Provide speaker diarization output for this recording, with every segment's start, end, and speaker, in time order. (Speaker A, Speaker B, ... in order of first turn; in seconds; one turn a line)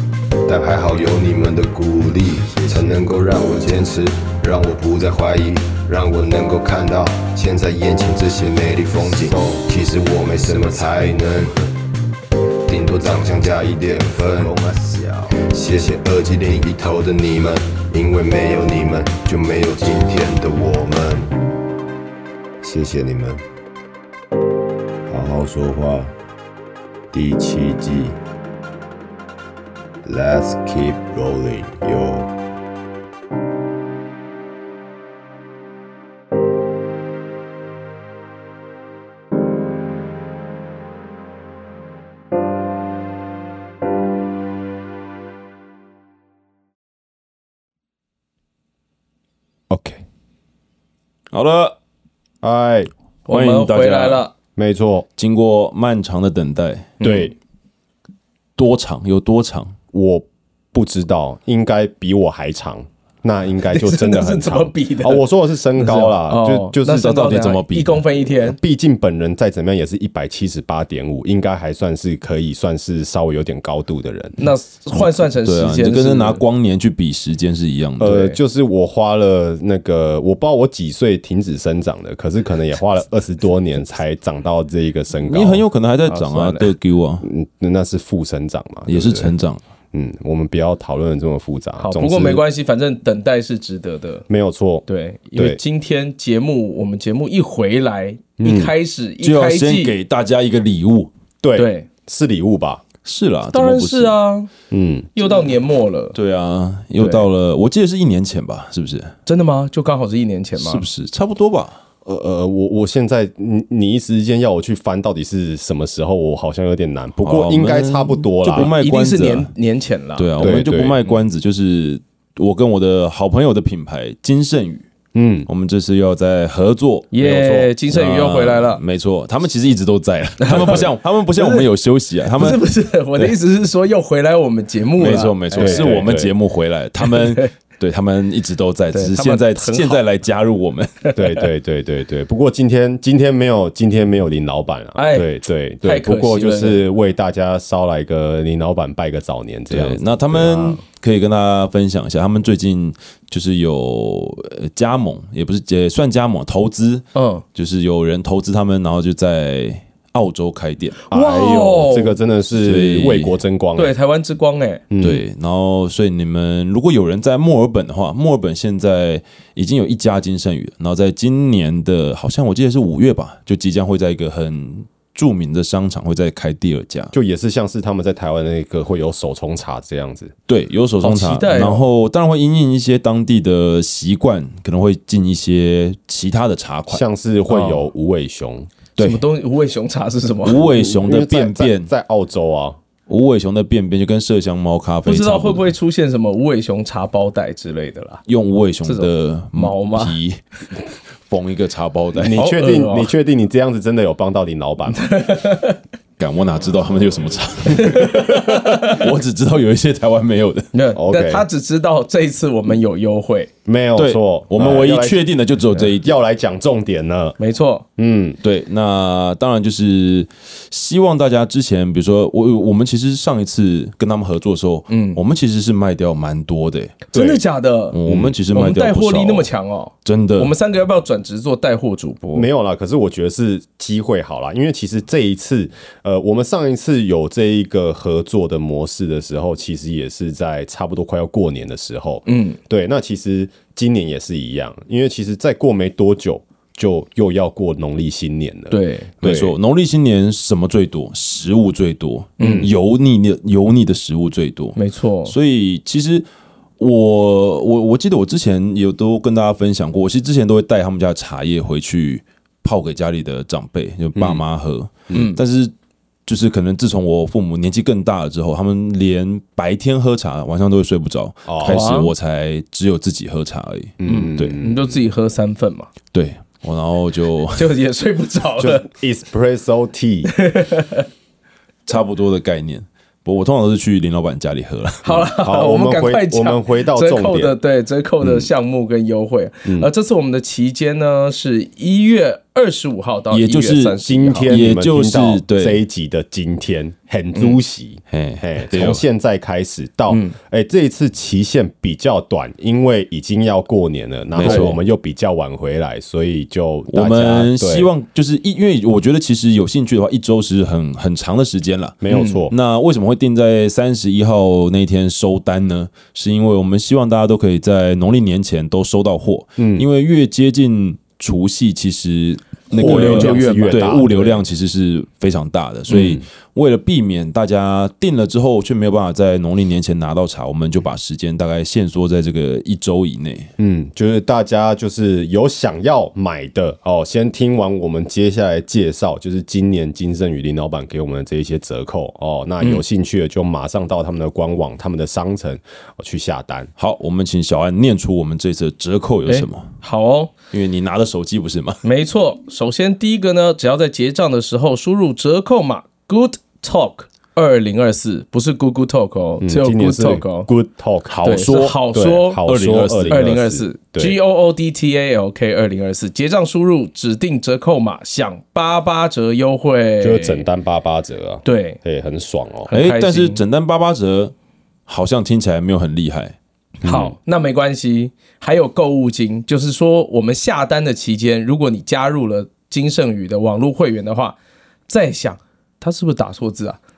Speaker A: 0.5-11.7
Speaker A: 12.7-21.4
Speaker B: 22.6-23.4
Speaker B: 25.1-26.1
Speaker B: 27.1-28.2
Speaker B: 30.0-32.3
Speaker B: 49.7-50.0
Speaker C: 51.3-51.7
Speaker B: 52.4-52.9
Speaker D: 53.3-54.3
Speaker C: 53.3-54.2
Speaker B: 54.5-55.0
Speaker C: 55.2-57.0
Speaker D: 57.0-57.3
Speaker B: 57.0-57.3
Speaker C: 58.6-59.8
Speaker B: 59.9-67.2
Speaker D: 63.7-68.6
Speaker C: 66.9-68.0
Speaker B: 68.5-74.5
Speaker D: 74.4-76.4
Speaker C: 75.3-78.3
Speaker B: 78.0-85.6
Speaker C: 85.2-87.2
Speaker D: 86.1-86.7
Speaker B: 87.2-89.3
Speaker C: 88.9-89.6
Speaker B: 89.9-92.4
Speaker D: 91.8-94.2
Speaker B: 94.3-94.8
Speaker D: 94.9-99.9
Speaker B: 98.4-98.7
Speaker C: 99.2-101.1
Speaker B: 101.4-102.8
Speaker D: 101.5-101.9
Speaker C: 103.0-104.2
Speaker D: 103.5-104.5
Speaker B: 104.7-105.2
Speaker D: 105.2-106.1
Speaker C: 106.1-109.1
Speaker D: 107.0-107.2
Speaker D: 109.2-110.8
Speaker C: 110.5-111.8
Speaker B: 112.0-118.7
Speaker C: 117.2-119.5
Speaker D: 118.5-120.7
Speaker C: 120.2-124.9
Speaker B: 120.4-121.0
Speaker B: 125.1-125.5
Speaker C: 125.5-133.3
Speaker D: 127.1-128.8
Speaker B: 127.2-127.7
Speaker D: 130.4-131.7
Speaker D: 132.3-136.1
Speaker C: 135.0-141.1
Speaker B: 135.6-136.3
Speaker D: 137.0-137.5
Speaker D: 138.9-140.0
Speaker B: 141.2-150.8
Speaker D: 144.9-145.3
Speaker D: 145.8-146.8
Speaker C: 149.7-161.0
Speaker D: 157.1-157.4
Speaker D: 161.1-162.2
Speaker B: 161.1-163.9
Speaker C: 162.6-163.4
Speaker D: 163.8-164.8
Speaker B: 164.9-165.2
Speaker C: 165.0-177.1
Speaker B: 177.1-180.3
Speaker C: 180.5-187.0
Speaker D: 181.0-181.8
Speaker B: 186.9-188.7
Speaker D: 187.5-187.9
Speaker C: 189.0-189.2
Speaker D: 189.0-190.9
Speaker C: 190.4-191.9
Speaker B: 190.8-192.8
Speaker C: 193.1-195.7
Speaker D: 195.1-198.2
Speaker C: 198.3-200.4
Speaker D: 198.8-200.2
Speaker C: 201.2-202.4
Speaker B: 202.2-205.0
Speaker D: 202.3-203.1
Speaker D: 204.9-205.8
Speaker C: 206.2-210.7
Speaker D: 207.7-209.1
Speaker D: 210.7-213.5
Speaker B: 210.9-211.4
Speaker B: 213.7-215.2
Speaker C: 214.0-216.1
Speaker B: 215.7-217.4
Speaker D: 217.4-217.8
Speaker B: 218.0-218.4
Speaker C: 218.4-227.1
Speaker D: 224.9-225.2
Speaker D: 227.1-232.5
Speaker B: 227.1-227.4
Speaker C: 227.9-229.5
Speaker B: 228.1-228.3
Speaker C: 230.0-230.5
Speaker B: 232.3-249.5
Speaker D: 242.2-242.6
Speaker D: 248.7-249.1
Speaker C: 249.2-256.2
Speaker D: 252.4-252.7
Speaker D: 254.8-255.3
Speaker C: 256.8-265.7
Speaker B: 264.1-264.4
Speaker D: 265.1-265.4
Speaker C: 266.2-274.5
Speaker B: 271.5-271.8
Speaker D: 271.7-272.1
Speaker B: 274.0-275.0
Speaker D: 274.0-275.9
Speaker C: 276.1-277.7
Speaker D: 277.6-278.8
Speaker B: 278.6-280.3
Speaker D: 280.3-281.1
Speaker C: 281.9-285.2
Speaker D: 285.0-294.5
Speaker B: 285.1-287.5
Speaker B: 288.2-288.5
Speaker C: 293.3-295.8
Speaker B: 294.0-307.9
Speaker C: 298.1-299.0
Speaker D: 300.1-300.3
Speaker C: 304.3-304.8
Speaker D: 304.4-304.7
Speaker C: 306.9-333.5
Speaker B: 312.0-312.5
Speaker D: 312.1-312.4
Speaker B: 319.6-319.9
Speaker D: 322.7-324.4
Speaker B: 322.7-324.1
Speaker B: 325.9-326.2
Speaker B: 333.6-346.7
Speaker C: 346.8-349.7
Speaker D: 349.3-350.3
Speaker C: 350.5-351.8
Speaker D: 351.8-360.5
Speaker B: 359.4-364.2
Speaker C: 361.1-361.8
Speaker D: 361.2-362.4
Speaker C: 362.4-363.4
Speaker D: 363.1-370.5
Speaker B: 370.0-372.7
Speaker D: 371.4-371.8
Speaker D: 372.7-373.4
Speaker C: 372.7-374.3
Speaker C: 374.9-376.4
Speaker B: 376.8-377.1
Speaker D: 376.8-384.4
Speaker D: 384.9-386.8